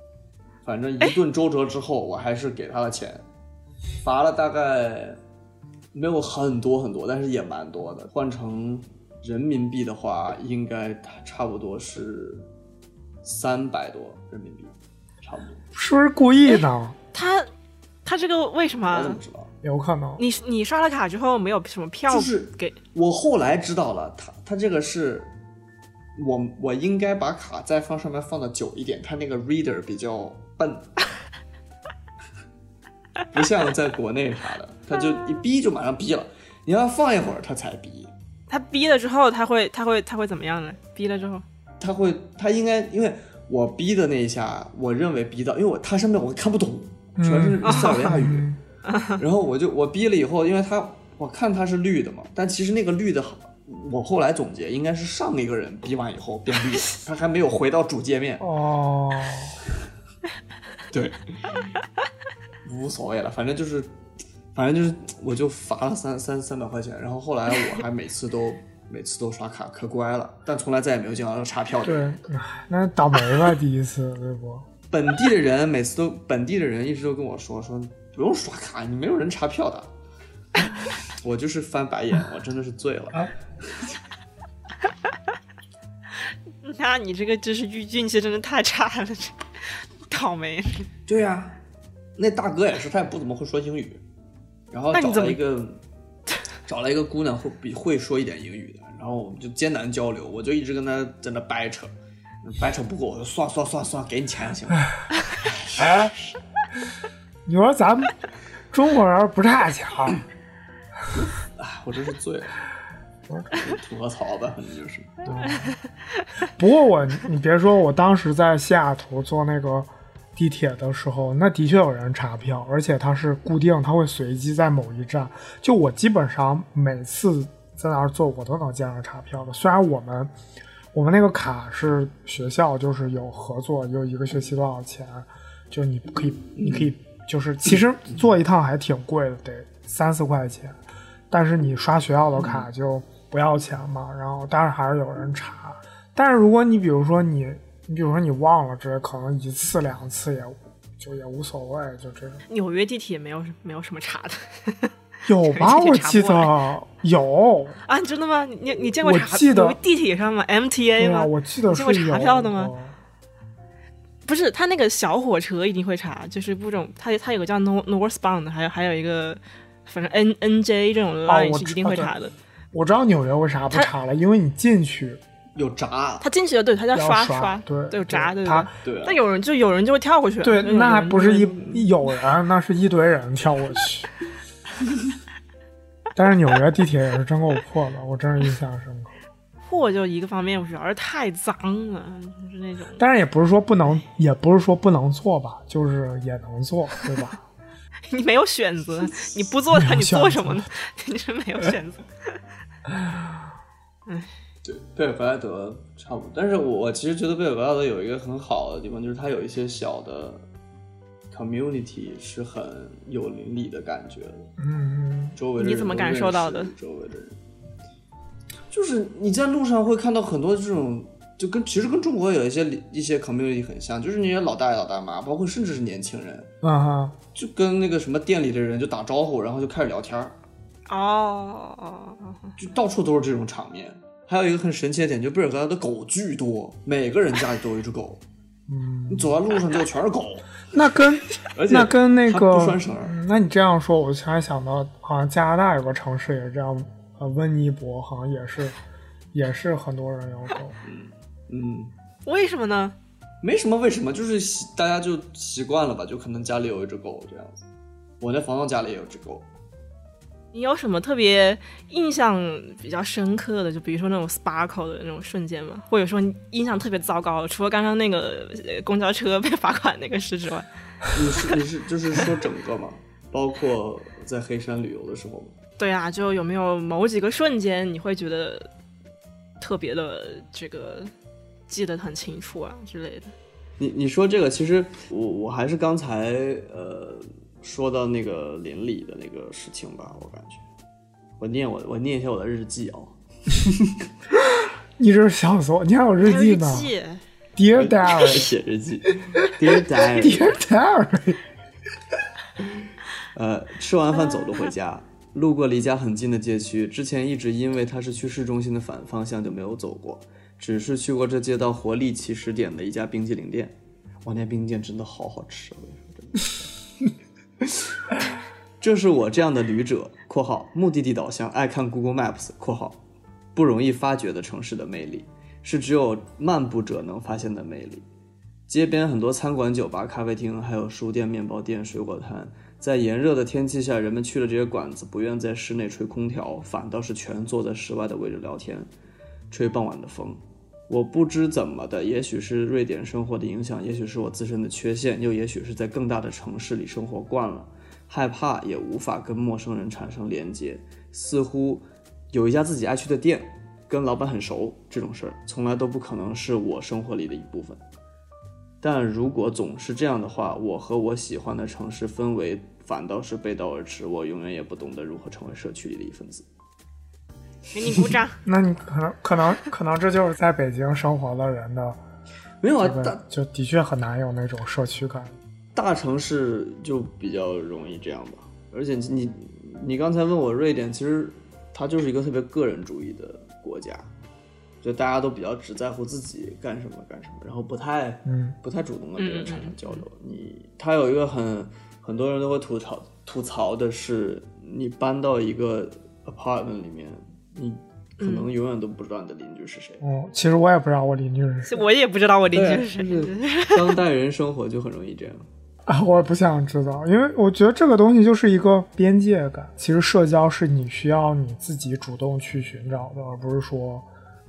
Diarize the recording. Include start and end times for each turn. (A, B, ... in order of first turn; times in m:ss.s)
0:00.6-0:03.2 A
0:04.0-0:05.2 A
0:05.9-0:12.4 A
0:13.2-0:15.6 A
0:15.7-0:17.0 B
0:16.4-0:17.5 C
0:18.0-0:19.2 C
0:18.9-0:19.5 A
0:19.6-0:20.2 B
0:20.2-0:22.8 C
0:22.1-0:25.3 A
0:26.2-0:30.9 A
0:33.3-0:38.1 A
0:38.5-0:41.4 C
0:41.8-0:48.4 A
0:47.2-0:48.6 B
0:47.6-0:48.0 C
0:48.8-0:49.2 C
0:49.2-0:58.4 A
0:58.4-0:59.6 B
1:00.9-1:01.7 A
1:02.6-1:03.9 A
1:04.5-1:12.2 A
1:11.8-1:14.6 B
1:14.9-1:19.9 A
1:21.1-1:23.3 A
1:26.6-1:30.9 C
1:31.1-1:31.6 A
1:32.2-1:34.0 A
1:34.7-1:35.8 A
1:34.9-1:35.4 C
1:36.7-1:41.9 A
1:42.4-1:44.9 A
1:45.8-1:46.1 B
1:47.4-1:48.1 B
1:48.7-1:50.2 B
1:51.2-1:52.6 A
1:53.5-1:55.6 A
1:55.3-1:55.7 B
1:56.6-2:10.3 B
2:10.9-2:20.8 B
2:16.6-2:16.9 A
2:21.3-2:32.4 B
2:22.4-2:22.6 A
2:32.5-2:34.9 C
2:35.2-2:37.8 B
2:35.4-2:36.5 C
2:37.8-2:42.7 C
2:39.0-2:39.8 B
2:41.0-2:42.9 B
2:44.2-2:52.3 C
2:51.2-2:52.1 B
2:52.7-2:55.2 B
2:55.6-2:56.3 A
2:56.2-3:01.9 C
2:56.9-2:58.7 B
2:58.8-2:59.2 A
3:00.4-3:04.1 B
3:06.2-3:09.1 B
3:09.7-3:13.0 C
3:13.0-3:17.4 B
3:18.1-3:22.4 C
3:19.7-3:20.7 B
3:24.6-3:30.5 A
3:31.3-3:34.5 A
3:34.6-3:35.4 B
3:35.4-3:37.4 A
3:35.6-3:36.7 C
3:38.7-3:46.5 A
3:46.6-3:47.2 B
3:47.3-3:50.4 A
3:50.9-3:52.5 C
3:52.6-3:58.2 A
3:58.7-3:59.3 B
3:59.1-4:00.5 A
4:00.7-4:08.8 B
4:01.5-4:03.2 A
4:09.3-4:10.8 B
4:10.8-4:11.9 A
4:12.2-4:12.9 C
4:13.4-4:17.6 A
4:18.2-4:19.4 A
4:20.5-4:30.7 C
4:31.1-4:35.5 A
4:35.8-4:38.7 C
4:39.6-4:41.1 C
4:41.7-4:43.3 C
4:43.8-4:50.6 A
4:51.4-4:54.0 A
4:55.0-4:56.9 B
4:56.2-4:57.2 C
4:57.6-4:58.5 B
4:57.7-5:00.5 A
4:59.4-4:59.7 B
5:00.2-5:01.4 B
5:03.3-5:16.7 A
5:17.6-5:17.9 A
5:18.8-5:23.0 A
5:23.5-5:28.0 A
5:28.7-5:38.9 A
5:39.5-5:57.8 A
5:58.8-6:06.5 A
6:07.7-6:08.4 C
6:08.4-6:12.0 B
6:12.6-6:13.2 A
6:12.8-6:15.4 B
6:15.7-6:24.1 A
6:24.8-6:40.0 A
6:28.2-6:28.6 B
6:29.2-6:30.0 C
6:38.2-6:38.5 C
6:40.0-6:41.8 B
6:41.7-6:43.8 C
6:42.5-6:45.4 A
6:45.8-6:54.1 B